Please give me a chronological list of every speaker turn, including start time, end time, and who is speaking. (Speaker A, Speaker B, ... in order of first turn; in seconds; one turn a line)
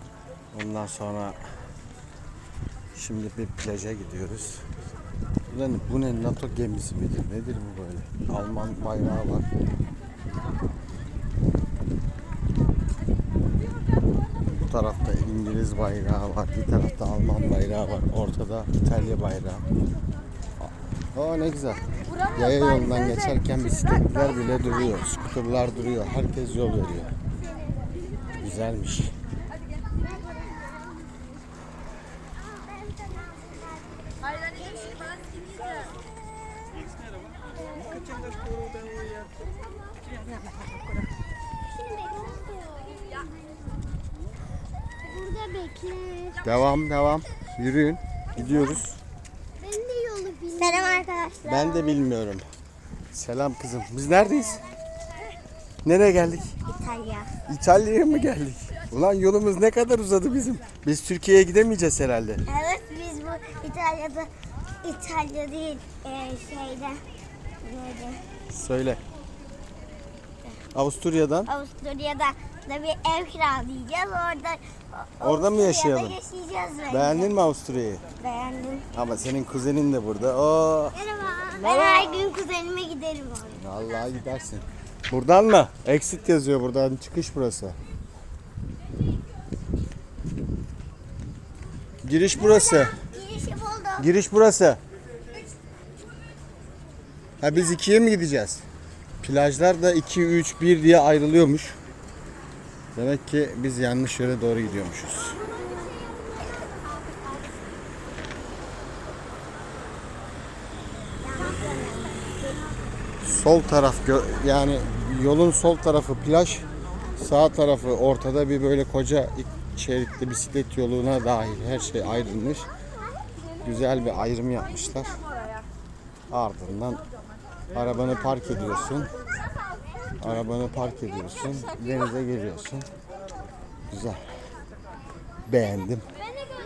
Speaker A: 0.5-1.4
Speaker A: 2.9-4.6
Speaker A: 5.5-9.5
Speaker A: 14.6-19.6
Speaker A: 20.6-27.1
Speaker A: 28.4-29.1
Speaker B: 37.9-38.3
Speaker B: 41.8-43.1
Speaker B: 45.0-46.4
Speaker A: 46.4-49.0
Speaker B: 49.6-52.0
Speaker A: 51.4-52.4
Speaker A: 53.1-54.6
Speaker A: 55.8-56.5
Speaker B: 56.7-57.3
Speaker A: 57.5-62.4
Speaker B: 62.5-64.3
Speaker B: 64.8-67.0
Speaker B: 67.6-68.2
Speaker A: 68.5-69.0
Speaker A: 70.7-71.5
Speaker B: 71.5-77.3
Speaker A: 75.2-76.2
Speaker A: 76.9-78.0
Speaker B: 78.2-78.8
Speaker A: 78.9-81.0
Speaker B: 80.9-83.6
Speaker A: 81.7-82.2
Speaker A: 83.5-87.8
Speaker A: 92.0-92.9
Speaker B: 92.9-94.1
Speaker A: 94.0-94.8
Speaker A: 97.4-98.6
Speaker A: 99.2-101.8
Speaker A: 102.9-105.4
Speaker B: 111.2-112.8
Speaker A: 113.2-116.7
Speaker A: 117.2-122.7
Speaker A: 123.6-125.2
Speaker A: 126.3-127.0
Speaker A: 127.7-129.1
Speaker A: 130.2-132.9
Speaker A: 133.9-134.2
Speaker A: 135.5-136.0